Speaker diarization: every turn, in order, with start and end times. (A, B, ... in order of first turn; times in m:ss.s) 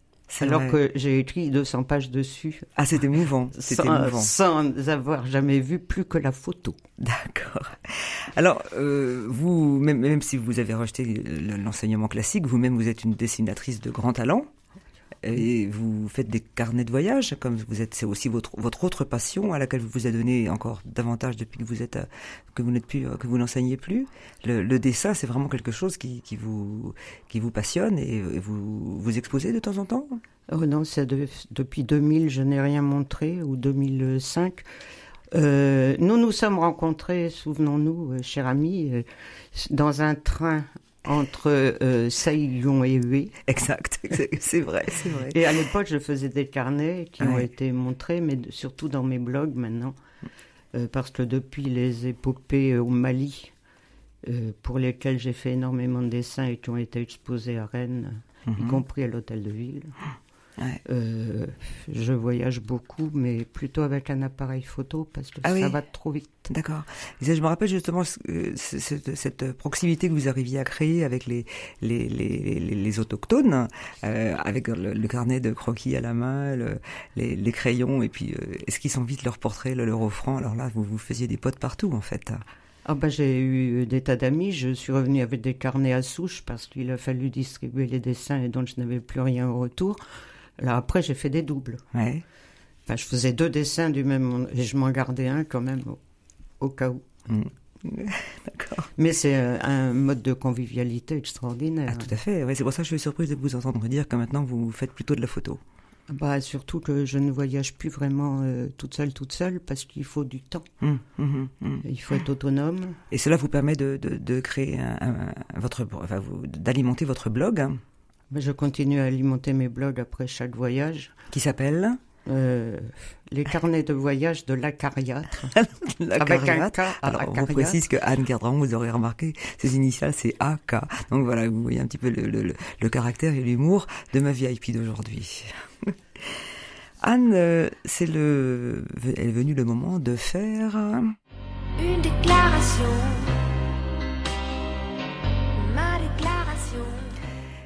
0:00.3-0:00.8 A
0:00.4-0:02.7 B
0:02.8-0:04.3 A
0:03.6-0:06.8 B
0:07.0-0:14.5 A
0:15.2-0:30.2 A
0:30.5-0:34.6 B
0:35.3-0:43.4 B
0:43.5-0:45.4 A
0:45.2-0:49.9 B
0:47.2-0:47.5 A
0:50.7-0:53.5 B
0:54.2-0:59.9 B
0:58.5-0:58.8 A
1:00.8-1:06.5 B
1:05.4-1:05.8 A
1:06.5-1:22.4 A
1:22.8-1:30.0 B
1:30.6-1:31.8 B
1:31.9-1:32.2 A
1:32.9-1:36.0 B
1:36.6-1:37.1 B
1:37.3-1:38.9 A
1:39.0-1:42.1 B
1:41.9-1:45.6 A
1:46.1-1:50.6 B
1:50.8-1:51.8 A
1:51.8-1:53.0 B
1:53.1-1:57.8 A
1:58.3-2:01.1 B
2:01.3-2:02.0 A
2:02.2-2:05.5 B
2:05.5-2:16.4 A
2:06.2-2:07.8 B
2:17.0-2:21.1 A
2:21.8-2:23.3 C
2:25.6-2:27.1 C